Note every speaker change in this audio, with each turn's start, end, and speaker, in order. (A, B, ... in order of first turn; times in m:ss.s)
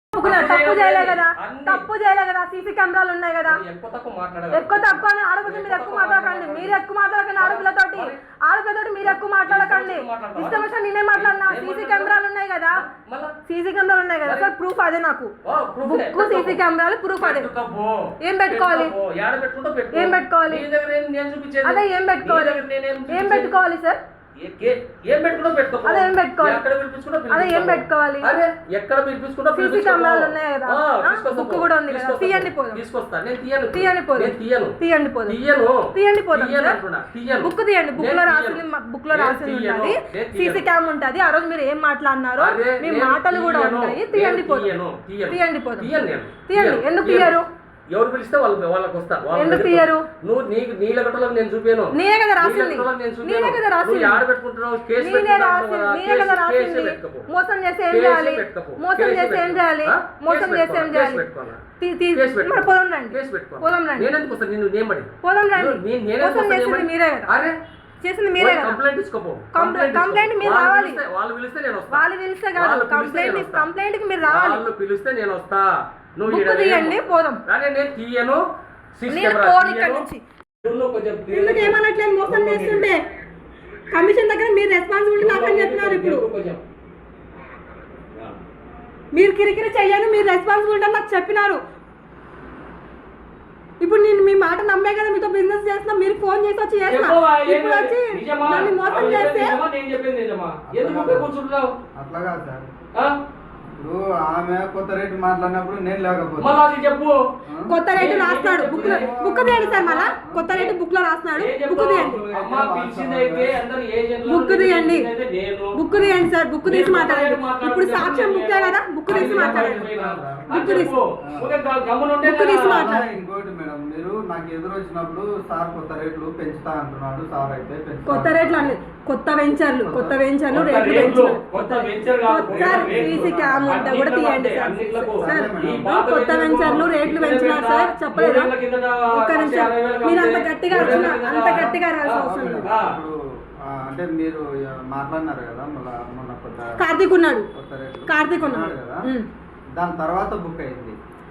0:00.1-0:03.6 A
0:00.2-0:01.8 B
0:03.4-0:06.8 B
0:04.5-0:12.8 A
0:07.4-0:08.2 B
0:09.0-0:12.1 B
0:12.7-0:13.3 B
0:13.5-0:15.3 A
0:14.2-0:14.5 B
0:15.4-0:16.6 B
0:15.8-0:17.5 A
0:17.2-0:23.6 B
0:18.2-0:18.9 A
0:19.9-0:20.6 A
0:21.6-0:24.0 A
0:24.4-0:40.6 B
0:25.8-0:26.6 A
0:27.3-0:28.3 A
0:29.5-0:32.8 A
0:33.7-0:35.4 A
0:35.9-0:36.8 A
0:37.4-0:44.7 A
0:42.4-0:47.4 B
0:45.3-0:45.9 A
0:46.5-0:47.4 A
0:47.9-0:57.3 B
0:49.3-0:50.0 A
0:51.9-0:54.2 A
0:55.0-1:01.2 A
0:57.9-1:01.6 B
1:01.8-1:04.1 A
1:02.1-1:07.6 B
1:05.2-1:07.3 A
1:08.0-1:08.8 A
1:08.4-1:12.0 B
1:09.5-1:11.0 A
1:11.9-1:14.6 A
1:12.6-1:13.7 B
1:14.2-1:18.4 B
1:16.3-1:17.4 A
1:19.0-1:20.1 B
1:19.1-1:20.2 A
1:20.6-1:22.9 B
1:21.3-1:23.0 A
1:23.9-1:26.2 A
1:25.2-1:26.6 B
1:29.1-1:31.6 A
1:33.8-1:39.6 A
1:36.8-1:41.7 B
1:40.7-1:41.3 C
1:41.9-1:42.7 C
1:43.7-1:46.6 C
1:46.4-1:47.2 B
1:47.4-1:50.5 C
1:47.7-1:52.2 A
1:47.9-1:49.1 B
1:49.7-1:50.7 B
1:51.3-1:55.8 B
1:51.9-1:53.6 C
1:54.2-1:55.1 A
1:55.7-1:59.9 A
1:56.6-2:03.0 B
1:59.1-2:01.6 C
2:00.5-2:00.9 A
2:02.2-2:03.0 A
2:02.6-2:08.8 C
2:08.0-2:18.5 A
2:09.8-2:10.2 C
2:10.5-2:22.9 B
2:12.5-2:13.9 C
2:15.2-2:15.9 C
2:19.1-2:22.7 A
2:20.7-2:23.1 C
2:23.6-2:26.7 C
2:26.8-2:27.5 A
2:27.5-2:29.0 C
2:28.1-2:29.3 A
2:29.8-2:31.0 C